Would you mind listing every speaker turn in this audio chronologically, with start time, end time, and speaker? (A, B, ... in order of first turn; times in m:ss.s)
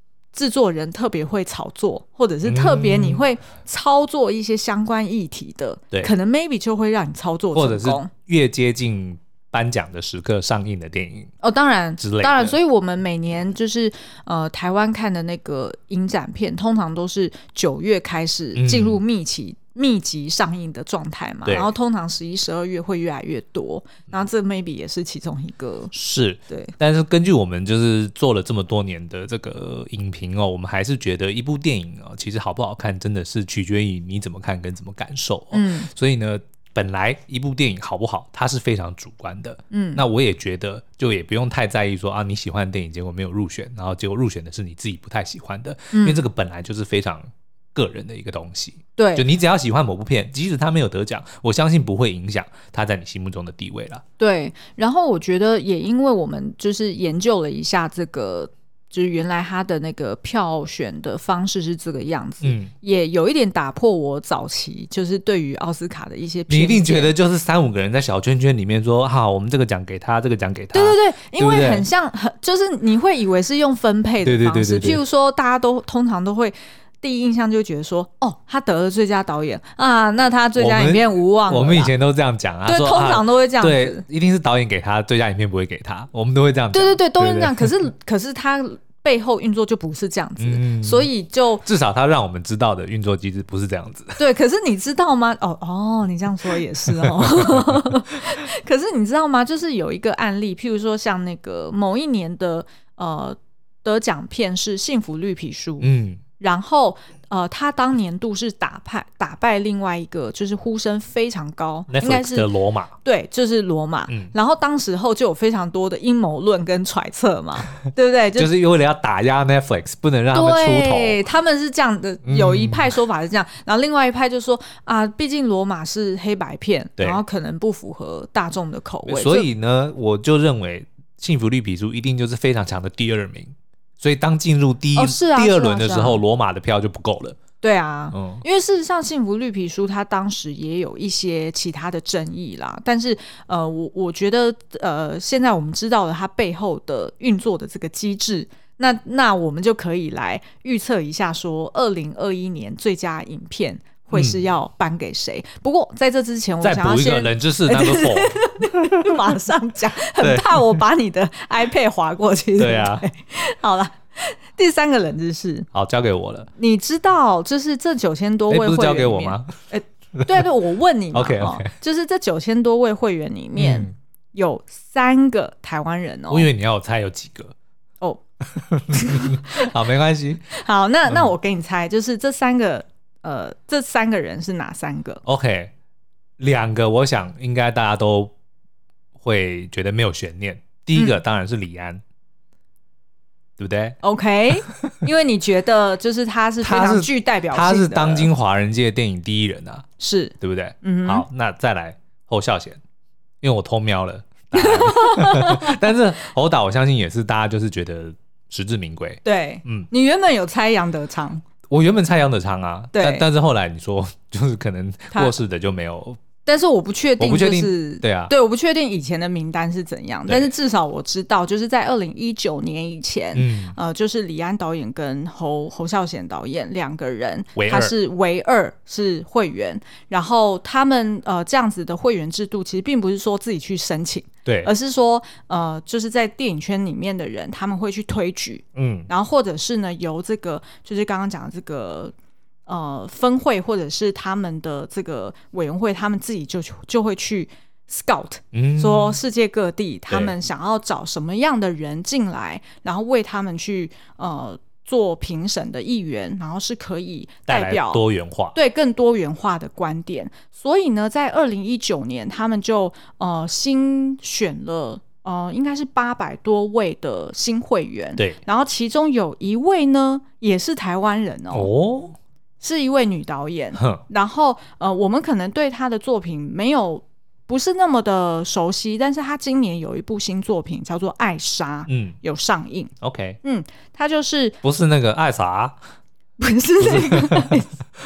0:00.3-0:08.1 A
0:02.4-0:03.2 B
0:07.5-0:11.3 B
0:11.4-0:25.9 A
0:12.0-0:12.5 B
0:18.6-0:19.0 B
0:21.4-0:21.7 B
0:25.9-0:54.0 B
0:26.5-0:26.7 A
0:35.5-0:35.9 A
0:39.7-0:40.0 A
0:45.9-0:46.2 A
0:49.0-0:49.2 A
0:54.2-1:07.1 A
1:02.4-1:02.7 B
1:06.5-1:11.9 B
1:10.7-1:21.9 A
1:14.2-1:15.0 B
1:20.6-1:27.7 B
1:22.6-1:24.0 A
1:26.7-1:31.6 A
1:30.4-1:31.1 B
1:31.6-1:34.2 B
1:34.2-1:52.5 A
1:37.0-1:37.9 B
1:45.8-1:46.2 B
1:51.9-1:52.9 B
1:53.0-1:58.5 A
1:54.1-1:54.3 B
1:58.4-2:01.2 B
2:00.3-2:09.5 A
2:02.2-2:02.9 B
2:09.0-2:17.4 B
2:14.9-2:16.2 A
2:17.6-2:45.7 A
2:18.1-2:18.4 B
2:34.1-2:34.4 B
2:36.6-2:39.3 B
2:40.2-2:40.8 B
2:42.6-2:43.0 B
2:45.7-2:46.5 B
2:46.6-2:56.5 A
2:48.5-2:49.5 B
2:50.2-2:50.5 B
2:51.1-2:51.7 B
2:53.6-2:53.9 B
2:56.3-2:57.5 B
2:58.5-3:00.5 B
2:58.9-2:59.7 A
3:00.5-3:05.2 A
3:05.2-3:05.7 B
3:06.4-3:08.3 B
3:09.2-3:12.0 B
3:13.6-3:14.0 B
3:14.0-3:18.3 A
3:16.6-3:19.8 B
3:20.0-3:21.2 A
3:20.4-3:22.8 B
3:23.4-3:29.9 B
3:24.5-3:25.8 A
3:29.2-3:31.4 A
3:31.7-3:36.2 B
3:32.9-3:33.2 A
3:36.4-4:02.1 A
3:37.2-3:38.3 B
3:43.3-3:43.8 B
3:47.6-3:47.9 B
3:54.4-3:54.7 B
3:58.7-3:59.1 B
4:02.7-4:18.0 A
4:08.5-4:09.2 B
4:17.5-4:18.6 B
4:18.5-4:31.7 A
4:31.5-4:32.2 B
4:32.6-4:42.9 A
4:33.8-4:34.0 B
4:41.9-4:42.2 B
4:43.0-4:43.4 B
4:43.4-4:44.6 A
4:44.6-4:45.8 B
4:46.4-4:47.7 A
4:46.8-4:47.6 B